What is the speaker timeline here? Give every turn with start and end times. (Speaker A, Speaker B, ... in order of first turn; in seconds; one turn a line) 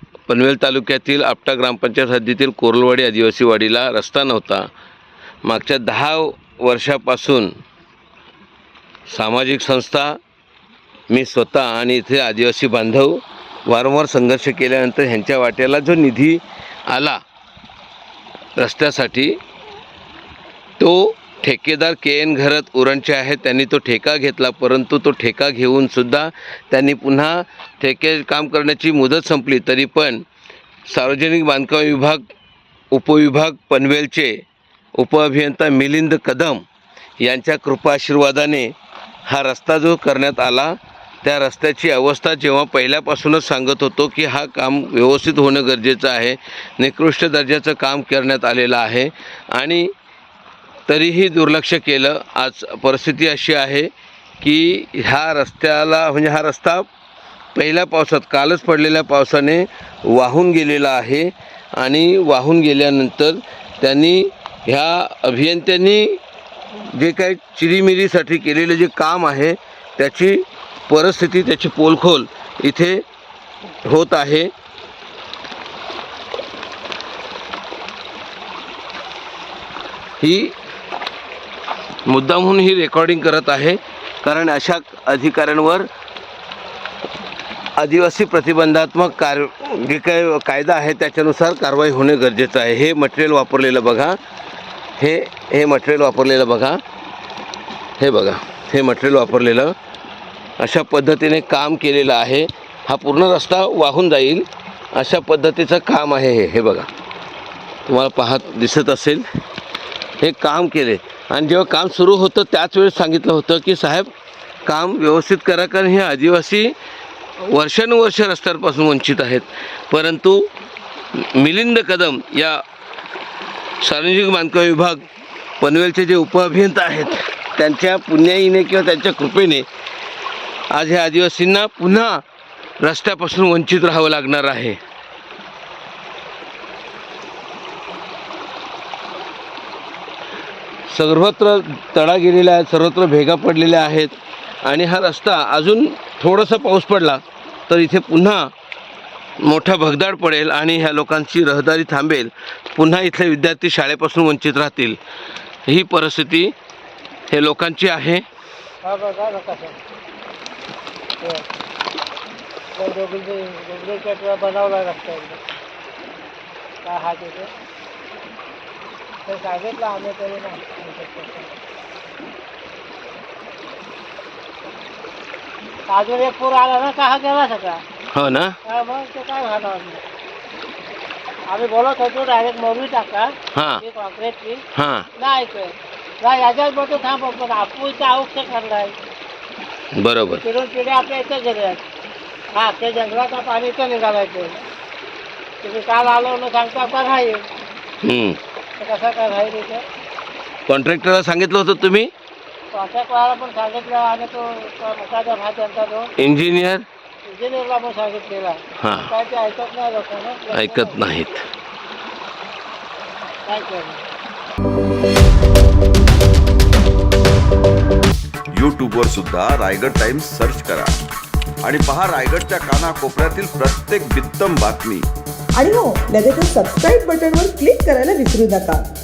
Speaker A: 0.3-4.7
Speaker A: 5.4-7.5
Speaker A: 9.1-10.2
Speaker A: 11.1-17.2
Speaker A: 18.6-19.4
Speaker A: 20.8-30.2
Speaker A: 30.9-32.2
Speaker A: 32.9-34.4
Speaker A: 35.0-36.6
Speaker A: 37.2-38.7
Speaker A: 39.3-49.9
Speaker A: 50.9-53.9
Speaker A: 54.4-56.9
Speaker A: 57.5-66.2
Speaker A: 66.9-73.0
Speaker A: 73.8-74.5
Speaker A: 80.2-80.5
Speaker A: 82.1-85.9
Speaker A: 87.8-94.2
Speaker A: 95.0-96.8
Speaker A: 98.0-99.8
Speaker A: 100.6-106.9
Speaker A: 107.9-109.2
Speaker A: 110.2-114.1
Speaker A: 114.7-116.7
Speaker A: 117.4-120.5
Speaker A: 121.1-122.6
Speaker A: 123.8-125.0
Speaker A: 125.6-129.7
Speaker A: 130.7-132.2
Speaker A: 132.8-134.8
Speaker A: 140.9-148.5
Speaker A: 149.4-155.0
Speaker A: 155.7-156.5
Speaker A: 157.3-158.2
Speaker B: 158.8-159.8
Speaker B: 161.2-161.5
Speaker B: 162.8-165.4
Speaker B: 166.8-167.5
Speaker B: 169.3-171.5
Speaker B: 175.9-177.8
Speaker A: 178.1-178.6
Speaker B: 178.7-180.0
Speaker B: 181.5-184.6
Speaker A: 183.5-183.8
Speaker A: 184.8-185.1
Speaker B: 185.2-188.9
Speaker A: 190.0-190.4
Speaker B: 190.4-191.8
Speaker B: 192.6-194.6
Speaker B: 195.6-197.4
Speaker A: 198.0-198.4
Speaker B: 198.8-199.8
Speaker A: 200.7-202.1
Speaker B: 202.7-206.1
Speaker A: 206.2-206.8
Speaker B: 207.3-211.1
Speaker A: 208.8-209.1
Speaker A: 210.5-211.5
Speaker B: 213.5-214.0
Speaker C: 218.5-221.0
Speaker C: 221.6-225.1
Speaker D: 225.6-228.9